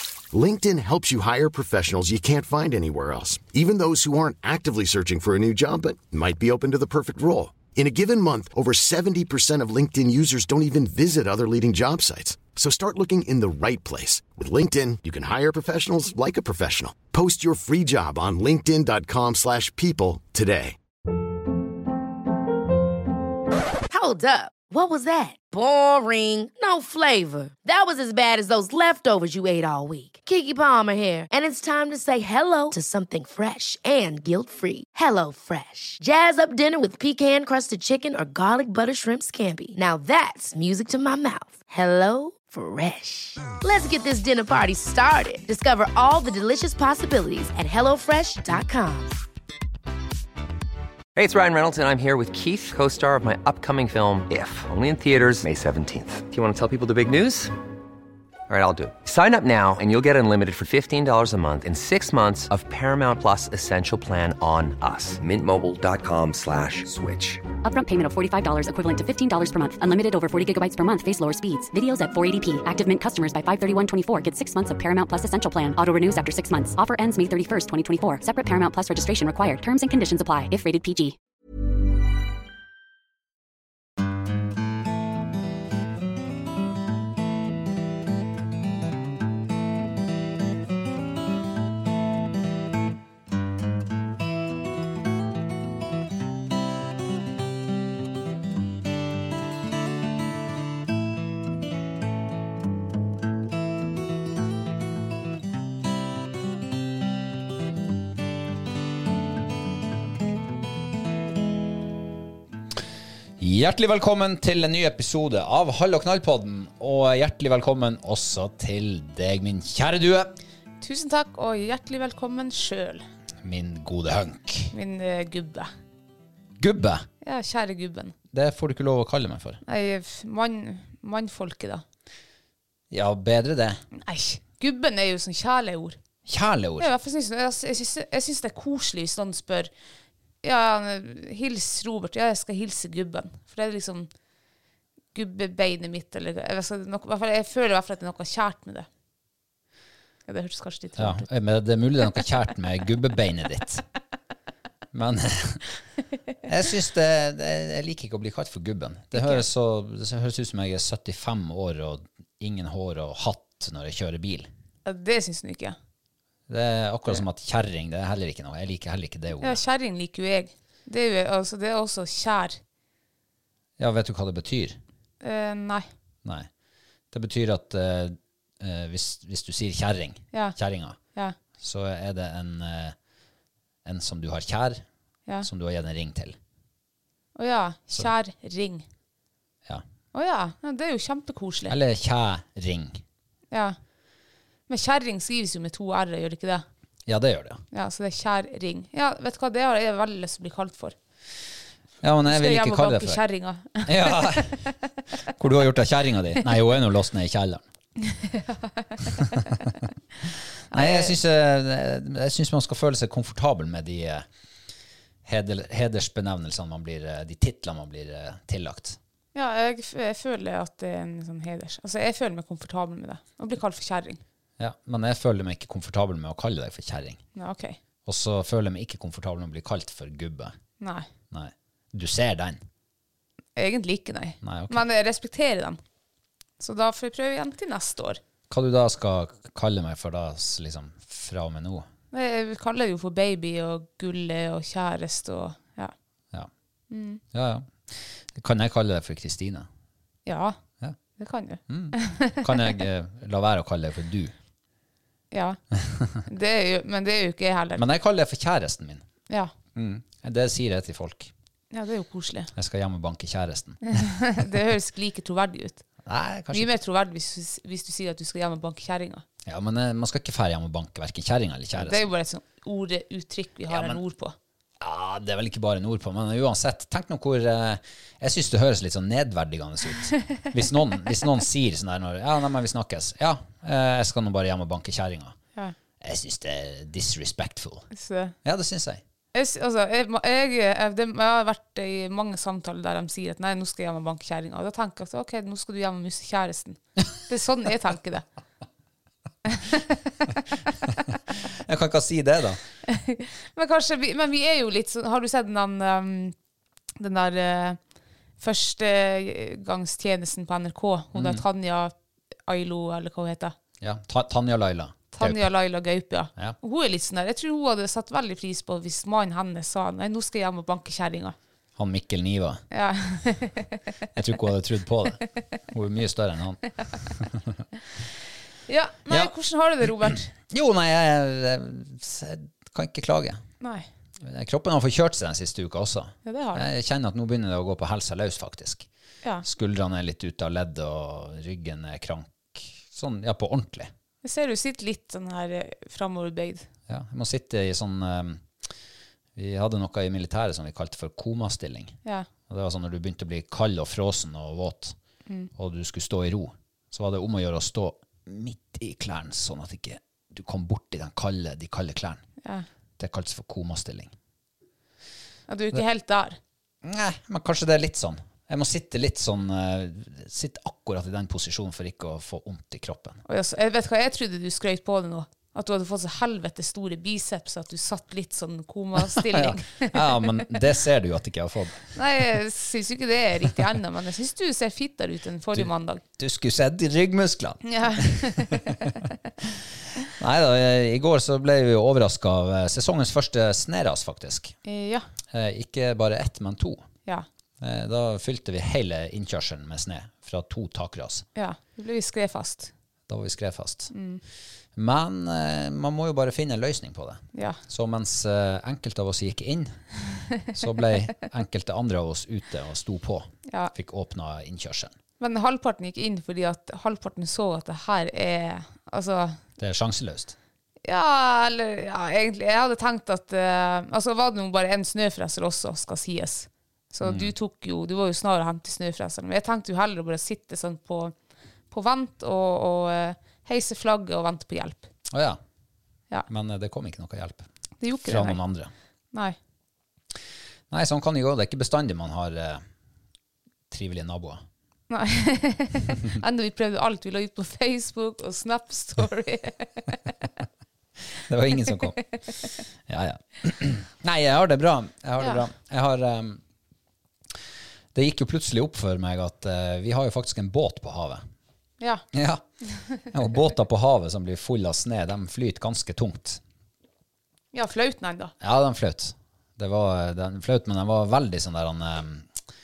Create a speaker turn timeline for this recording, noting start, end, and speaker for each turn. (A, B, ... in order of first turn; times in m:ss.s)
0:00.3-0:20.8 A
0:23.9-0:49.1 B
0:51.2-0:57.5 C
0:58.5-1:07.4 C
1:07.6-1:21.2 D
1:53.4-2:00.3 E
2:00.8-2:03.0 F
2:03.4-2:04.7 E
2:04.7-2:05.7 F
2:06.6-2:07.1 E
2:07.2-2:08.1 F
2:08.3-2:09.6 E
2:09.6-2:11.8 F
2:12.9-2:13.8 E
2:13.9-2:16.0 F
2:16.3-2:16.9 E
2:16.8-2:19.7 F
2:20.4-2:24.1 F
2:25.1-2:28.9 F
2:30.3-2:31.2 F
2:31.0-2:33.8 E
2:34.9-2:35.7 E
2:36.4-2:44.5 E
2:39.2-2:39.4 F
2:44.8-2:45.8 F
2:46.5-2:49.6 E
2:49.4-2:52.6 F
2:53.8-2:54.8 E
2:55.2-2:55.9 F
2:56.2-2:56.5 E
2:57.1-3:01.0 E
3:01.6-3:03.0 E
3:03.8-3:04.8 E
3:05.4-3:06.4 E
3:07.4-3:08.8 F
3:10.1-3:11.8 F
3:11.7-3:13.0 E
3:13.5-3:13.8 F
3:14.7-3:16.6 F
3:17.1-3:17.6 E
3:17.7-3:21.0 F
3:22.0-3:23.2 E
3:22.3-3:24.7 F
3:23.8-3:24.6 E
3:25.4-3:27.6 E
3:28.0-3:29.7 F
3:29.1-3:29.7 E
3:30.7-3:34.3 E
3:30.7-3:31.2 F
3:35.2-3:39.0 E
3:39.3-3:44.2 F
3:44.6-3:47.2 E
3:47.4-3:47.8 F
3:48.0-3:50.5 E
3:50.8-3:51.1 F
3:51.3-3:52.6 E
3:53.6-3:55.8 F
3:54.4-3:54.8 E
3:56.6-3:58.2 F
3:58.5-4:01.9 E
4:02.1-4:05.9 F
4:06.9-4:07.2 F
4:07.3-4:09.7 E
4:10.2-4:10.6 F
4:11.2-4:12.8 F
4:11.7-4:14.3 E
4:15.3-4:15.6 F
4:16.2-4:17.8 F
4:17.8-4:19.0 E
4:19.7-4:21.3 E
4:21.7-4:22.5 F
4:22.5-4:23.8 E
4:23.9-4:25.8 F
4:26.0-4:26.7 E
4:26.5-4:29.2 F
4:29.4-4:32.1 E
4:31.8-4:34.4 F
4:33.7-4:34.0 E
4:34.8-4:45.4 E
4:46.0-4:47.9 E
4:47.9-4:48.3 F
4:48.4-4:49.0 E
4:49.3-4:58.2 F
4:59.4-5:00.3 F
5:01.5-5:02.6 E
5:02.9-5:06.3 F
5:07.0-5:07.8 F
5:08.4-5:11.9 F
5:11.1-5:11.4 E
5:12.5-5:13.6 F
5:13.8-5:15.5 E
5:15.1-5:21.4 F
5:21.8-5:22.6 E
5:22.7-5:23.8 F
5:24.1-5:27.6 E
5:28.7-5:30.3 F
5:29.8-5:33.4 E
5:33.6-5:33.9 F
5:34.2-5:38.9 E
5:36.2-5:36.7 F
5:39.4-5:43.9 E
5:44.2-5:46.7 F
5:46.9-5:48.5 E
5:49.4-5:52.0 E
5:52.5-5:55.0 E
5:55.6-6:02.2 E
6:03.0-6:04.1 E
6:05.5-6:06.4 F
6:06.8-6:13.2 E
6:13.2-6:20.7 F
6:19.0-6:22.0 E
6:21.9-6:26.0 F
6:25.5-6:29.0 E
6:27.7-6:28.9 F
6:30.2-6:34.6 E
6:34.6-6:35.0 F
6:35.3-6:36.8 E
6:37.6-6:41.2 E
6:41.4-6:42.7 F
6:43.1-6:43.9 E
6:43.9-6:44.2 F
6:44.8-6:49.8 E
6:47.3-6:47.6 F
6:50.5-6:54.9 E
6:53.5-6:53.7 F
6:55.2-6:59.4 F
6:59.6-7:00.3 E
7:00.8-7:11.1 F
7:07.0-7:07.3 E
7:11.7-7:14.9 F
7:15.1-7:15.4 E
7:16.3-7:17.5 E
7:17.8-7:18.4 F
7:18.0-7:18.7 E
7:20.7-7:22.6 E
7:23.7-7:24.4 E
7:24.9-7:30.1 F
7:31.2-7:32.0 E
7:32.9-7:36.4 E
7:35.2-7:35.4 F
7:37.9-7:41.2 E
7:42.1-7:42.4 E
7:43.1-7:46.4 E
7:47.5-7:48.3 F
7:48.4-7:52.3 E